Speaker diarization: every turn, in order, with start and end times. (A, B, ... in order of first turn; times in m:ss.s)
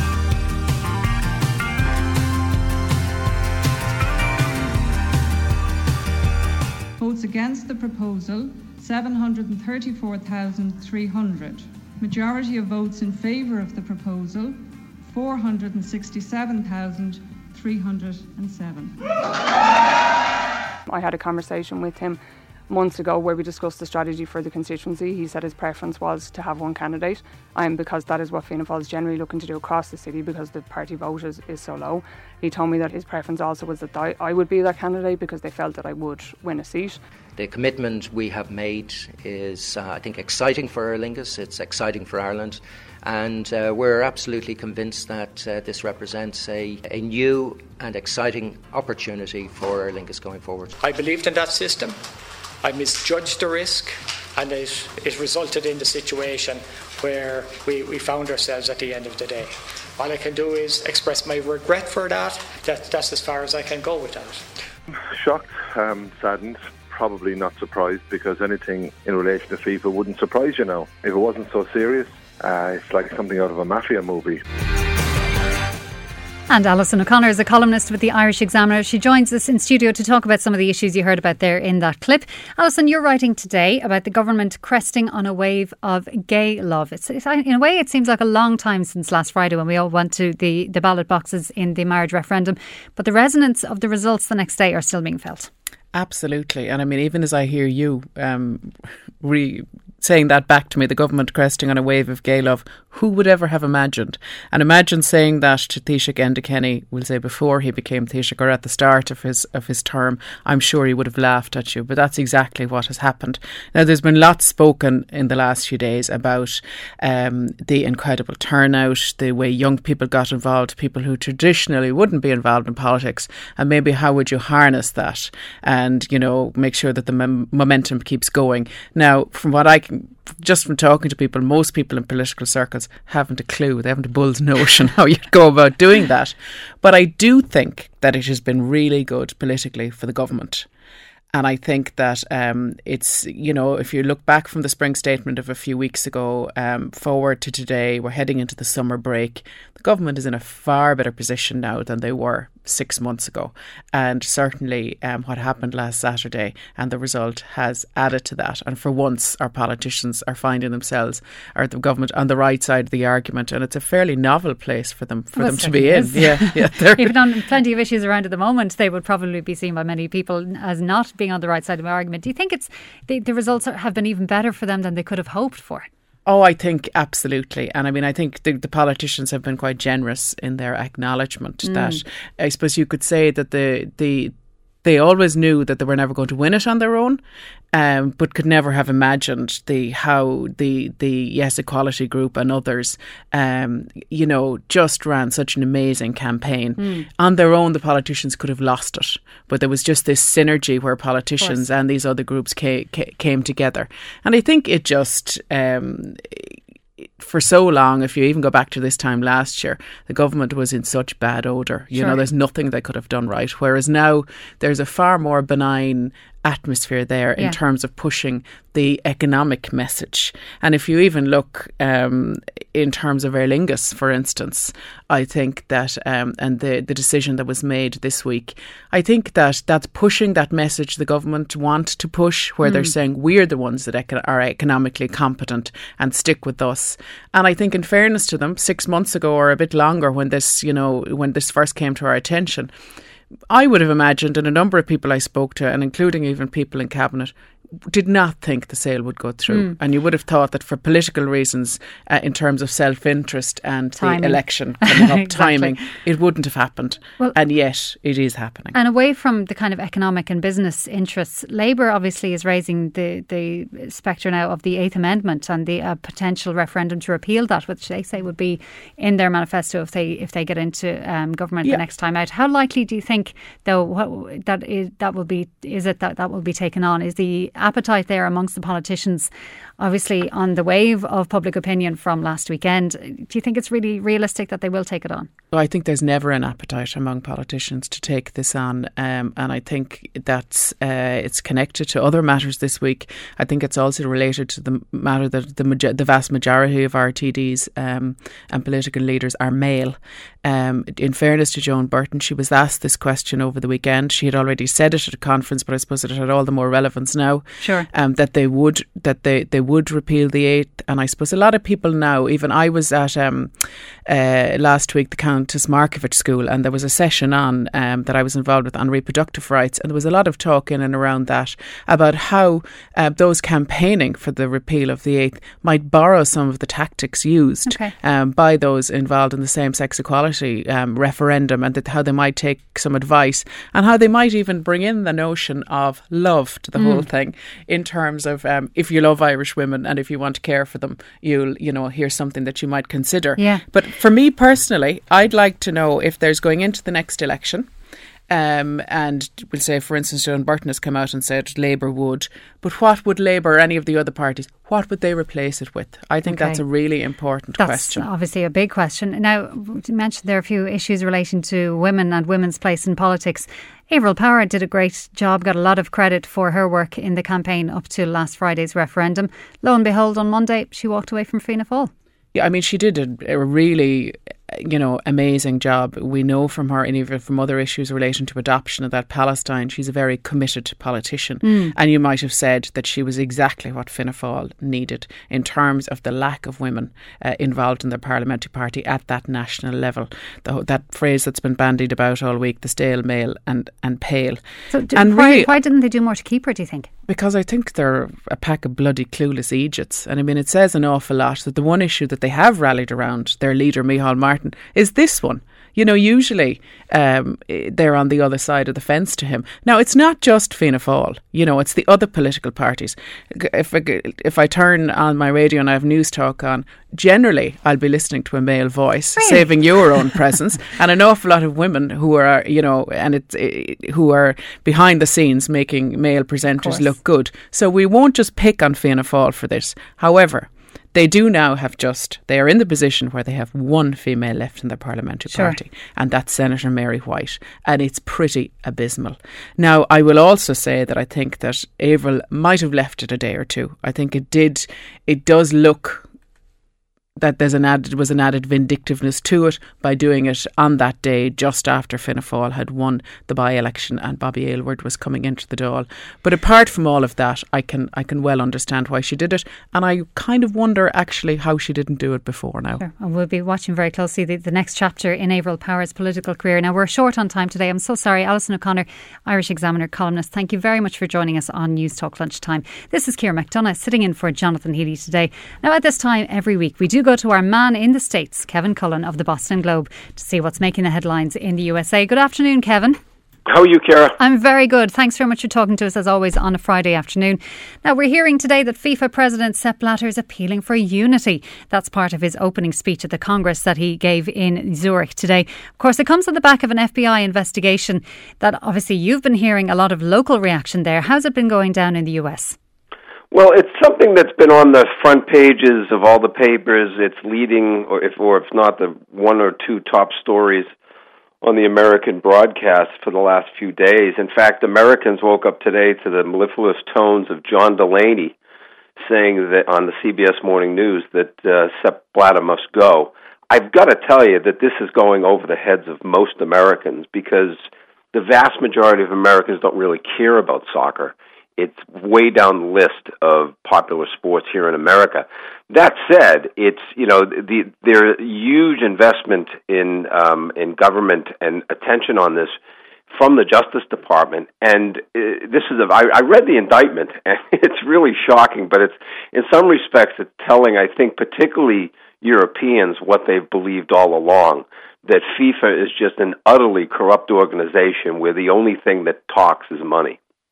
0:07.0-0:14.6 A
0:15.1-0:19.0 A
0:20.9-0:37.0 B
0:37.4-0:50.8 C
0:50.8-0:52.0 D
0:52.6-1:04.4 D
1:05.2-1:14.4 E
1:16.5-1:35.5 F
1:35.9-2:20.7 G
2:21.3-2:47.1 G
2:45.4-2:55.9 F
2:56.3-3:04.3 G
3:01.6-3:02.0 F
3:04.8-3:07.2 G
3:07.7-3:26.6 G
3:16.8-3:17.1 F
3:27.2-4:02.7 G
3:32.0-3:32.2 F
3:52.6-3:52.9 F
4:03.5-4:07.3 G
4:07.9-4:18.8 G
4:14.0-4:15.7 F
4:18.7-4:45.3 F
4:45.5-5:13.5 G
5:07.6-5:07.9 F
5:14.1-5:47.7 G
5:27.7-5:27.9 F
5:36.8-5:37.0 F
5:43.4-5:43.6 F
5:48.3-5:58.1 G
5:56.2-5:56.6 F
5:57.6-6:11.9 F
6:12.4-6:34.4 G
6:21.5-6:21.7 F
6:34.7-6:36.9 F
6:35.0-6:35.5 G
6:37.1-7:26.0 G
7:06.6-7:06.9 F
7:15.3-7:15.6 F
7:27.2-7:42.8 G
7:42.8-8:03.0 F
8:03.5-8:04.2 H
8:04.2-8:22.6 F
8:23.3-8:30.7 H
8:31.4-8:38.3 H
8:39.0-9:02.6 H
9:03.1-9:20.2 H